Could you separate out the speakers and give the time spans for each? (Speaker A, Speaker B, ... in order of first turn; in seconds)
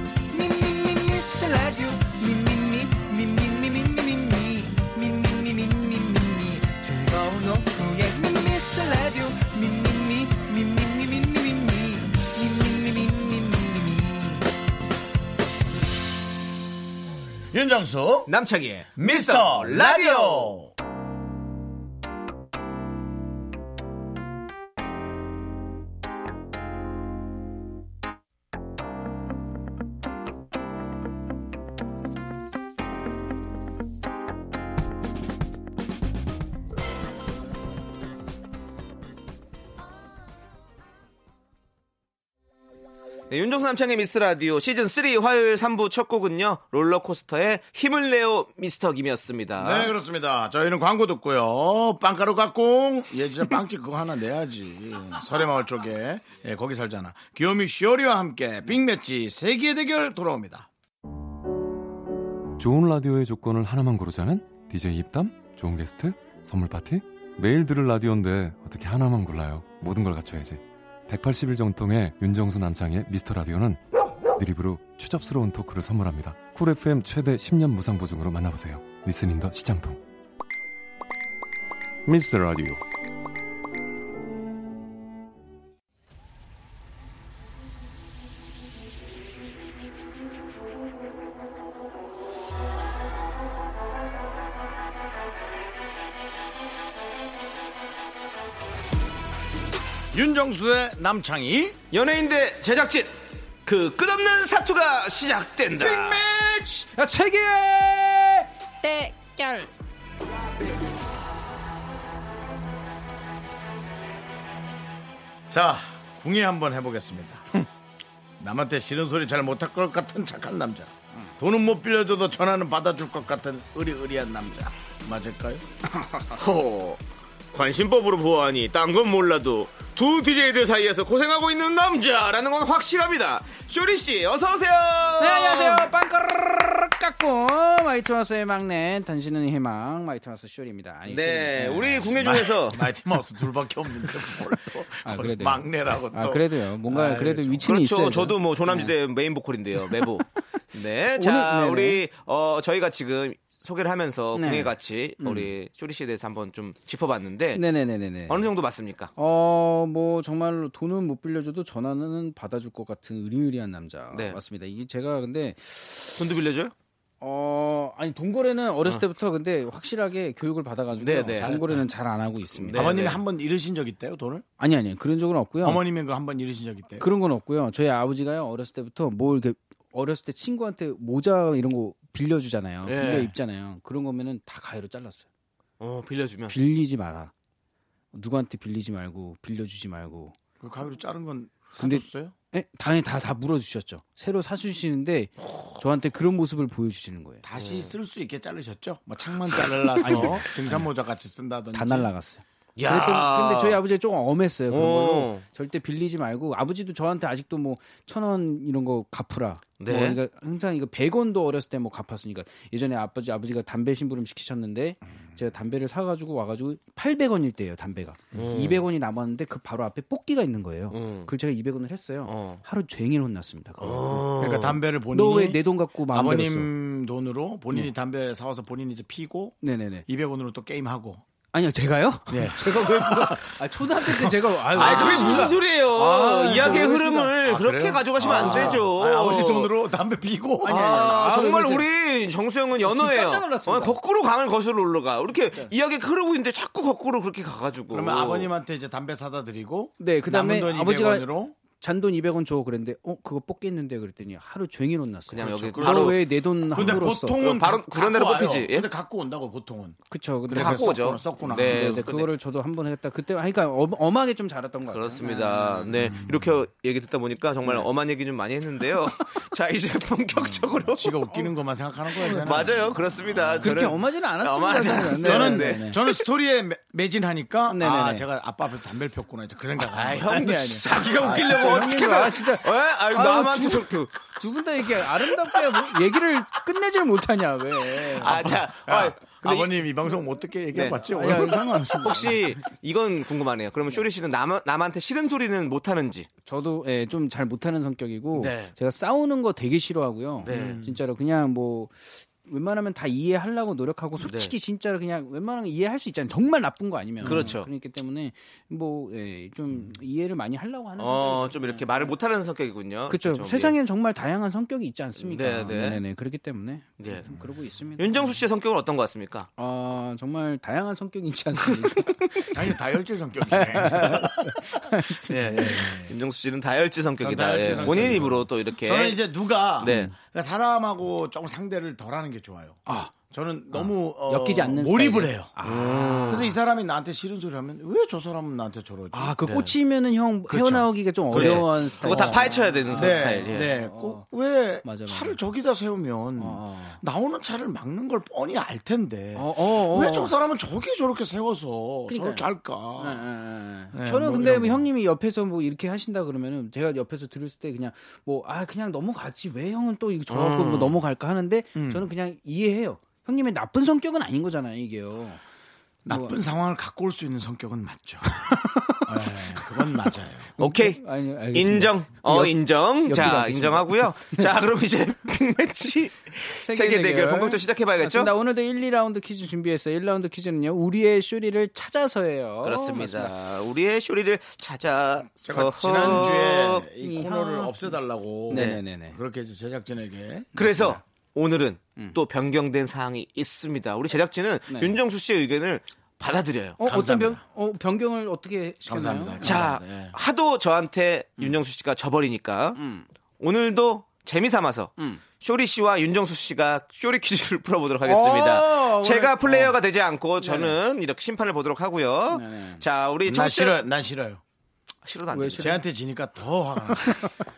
Speaker A: 0.3-14.5
Speaker B: 17.5-18.3, 19.0-20.7, 49.6-60.7, 100.1-101.8, 115.5-117.5, 118.4-125.7, 142.2-147.7, 171.4-171.8, 172.7-174.4, 175.6-177.1, 182.8-183.4, 190.6-192.3, 197.4-202.1, 224.4-229.6, 230.1-231.2, 232.3-235.5, 236.5-241.2, 247.9-251.6, 255.4-262.0, 266.2-266.4, 270.4-273.8, 275.2-280.6, 281.3-281.6, 288.1-291.9, 300.5-301.0, 307.2-307.5, 322.5-326.1, 327.2-335.5, 336.3-339.4, 340.5-353.3, 353.9-354.9, 361.8-362.1, 366.1-368.5, 369.1-370.6, 385.4-391.0, 396.8-397.4, 398.9-400.2, 413.2-414.4, 415.6-417.2
Speaker C: 18.3-20.6, 43.3-49.9, 101.9-103.1, 103.7-106.2, 126.3-135.9, 141.1-142.9, 147.6-157.6, 158.3-159.1, 164.1-164.4, 166.2-166.7, 171.0-171.8, 172.5-173.2, 185.8-186.6, 197.6-197.9, 199.8-200.3, 202.8-203.8, 204.7-205.4, 209.8-210.2, 218.3-218.9, 220.9-221.3, 222.2-222.6, 223.8-224.8, 234.8-239.7, 240.7-248.5, 255.3-256.2, 256.8-258.9, 260.5-262.3, 264.9-271.5, 272.2-276.2, 279.9-284.3, 285.0-285.4, 288.2-289.9, 290.7-291.0, 291.9-296.3, 298.3-298.7, 300.4-300.8, 304.2-304.5, 307.2-307.7, 311.0-313.8, 315.2-316.0, 317.0-317.3, 318.0-319.5, 326.1-329.2, 329.8-330.1, 335.6-336.5, 339.4-339.7, 341.3-343.7, 360.3-361.0, 370.6-378.3, 382.6-386.9, 388.5-388.8, 390.6-397.0, 399.4-402.8, 403.4-413.8, 415.1-415.8
Speaker D: 62.6-73.8, 74.4-80.0, 82.1-82.8
Speaker E: 105.8-109.7, 135.2-142.3, 145.0-148.9, 151.2-152.0, 154.3-155.5, 157.6-158.5, 159.2-166.1, 167.2-173.1, 174.6-175.9, 176.9-185.3, 186.5-187.3, 188.1-190.3, 191.8-197.4, 200.0-200.7, 201.7-224.4, 225.1-226.7, 229.6-230.1, 231.5-237.3, 238.2-238.9, 240.6-241.9, 242.8-244.0, 250.0-257.4, 260.1-266.2, 272.2-272.8, 273.6-276.1, 277.7-278.3, 280.3-288.4, 291.1-292.6, 296.4-312.1, 313.1-318.3, 319.6-322.7, 323.5-326.0, 327.6-328.3, 332.9-333.2, 333.7-336.5, 339.1-344.3, 344.8-345.4, 346.4-347.0, 349.4-350.3, 352.1-352.5, 353.0-365.4, 366.1-366.4, 368.5-370.1, 370.6-374.5, 376.6-383.3, 387.0-389.2, 394.7-395.0, 396.8-399.7, 402.8-403.1, 408.0-409.8, 410.4-410.8, 412.3-412.8, 415.3-415.8